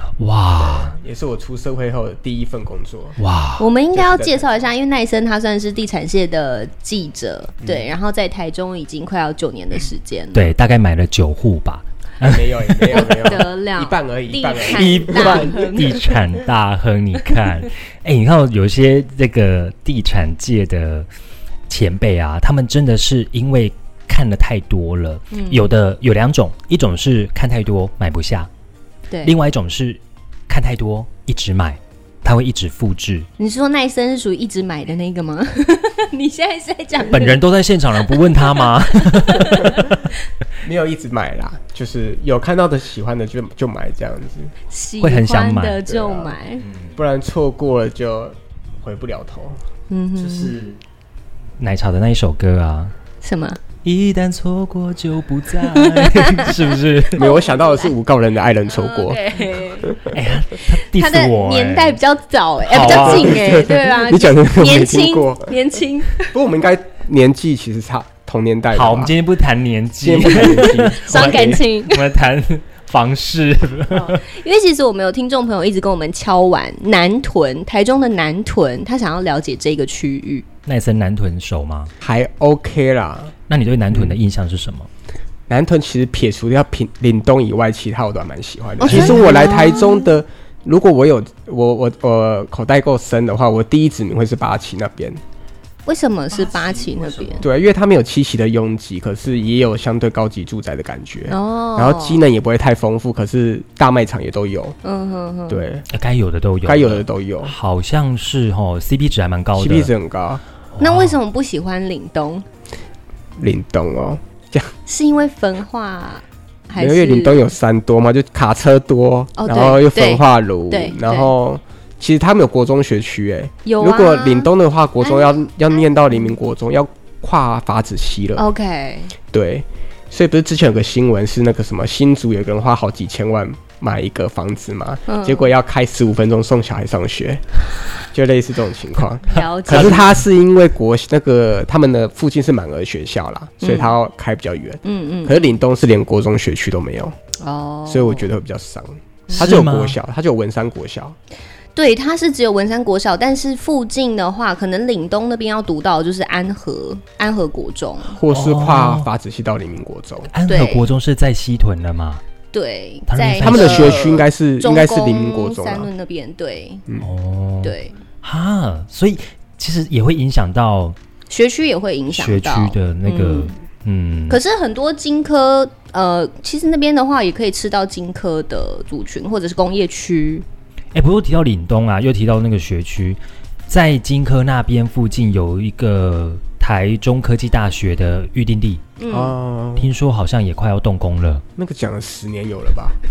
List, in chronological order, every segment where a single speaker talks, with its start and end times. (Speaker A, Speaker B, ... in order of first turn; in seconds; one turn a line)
Speaker A: 0.2-0.9
Speaker B: 0.6-3.2
Speaker A: 3.2-3.6
Speaker C: 3.6-10.5
Speaker B: 3.9-4.7
Speaker B: 7.6-7.9
Speaker A: 10.3-13.0
Speaker B: 12.2-15.7
Speaker C: 12.9-16.1
Speaker A: 14.7-21.1
Speaker A: 21.7-28.5
Speaker C: 25.3-25.7
Speaker C: 29.1-29.3
Speaker A: 29.2-33.3
Speaker C: 33.4-40.2
Speaker A: 37.1-40.1
Speaker B: 40.6-44.5
Speaker C: 44.7-46.7
Speaker A: 45.0-45.8
Speaker B: 45.8-46.4
Speaker A: 46.6-47.0
Speaker B: 47.0-49.6
Speaker C: 49.9-50.5
Speaker A: 50.1-50.8
Speaker A: 51.6-52.9
Speaker C: 53.2-53.6
Speaker A: 53.8-57.2
Speaker C: 55.5-57.9
Speaker B: 57.1-59.2
Speaker C: 58.7-60.0
Speaker B: 59.8-60.1
Speaker A: 60.0-62.0
Speaker C: 60.6-66.3
Speaker A: 62.6-63.5
Speaker B: 62.8-65.7
Speaker B: 66.2-69.1
Speaker A: 68.7-74.2
Speaker B: 70.0-71.6
Speaker C: 70.2-72.1
Speaker C: 73.9-80.5
Speaker A: 80.7-81.9
Speaker B: 82.0-83.3
Speaker A: 83.5-84.9
Speaker B: 83.9-84.2
Speaker B: 85.5-95.2
Speaker C: 88.8-90.2
Speaker A: 88.8-89.3
Speaker C: 95.8-97.5
Speaker A: 96.3-97.5
Speaker B: 97.4-104.8
Speaker C: 101.3-102.2
Speaker C: 104.8-105.7
Speaker B: 105.5-105.8
Speaker A: 105.9-109.9
Speaker B: 106.6-107.5
Speaker B: 109.5-110.4
Speaker A: 110.7-111.2
Speaker C: 110.8-112.5
Speaker B: 113.4-114.7
Speaker C: 114.8-117.5
Speaker B: 116.7-128.4
Speaker C: 119.3-121.3
Speaker C: 123.6-126.3
Speaker C: 128.3-129.1
Speaker B: 129.3-137.4
Speaker C: 135.1-135.5
Speaker B: 138.1-147.2
Speaker C: 139.3-140.1
Speaker A: 139.3-140.0
Speaker C: 143.6-143.9
Speaker C: 144.8-145.4
Speaker C: 147.4-148.3
Speaker B: 147.8-151.2
Speaker C: 149.3-149.5
Speaker A: 149.3-149.9
Speaker C: 151.8-158.2
Speaker B: 158.1-160.3
Speaker A: 158.3-159.1
Speaker A: 160.3-162.2
Speaker C: 160.5-160.9
Speaker C: 162.5-166.8
Speaker A: 163.1-164.0
Speaker B: 163.4-165.9
Speaker A: 167.0-170.9
Speaker C: 167.6-168.0
Speaker C: 171.3-173.5
Speaker A: 172.1-174.4
Speaker C: 174.3-180.4
Speaker A: 180.9-188.8
Speaker C: 189.0-189.4
Speaker B: 189.1-189.9
Speaker A: 189.8-191.4
Speaker B: 191.6-193.0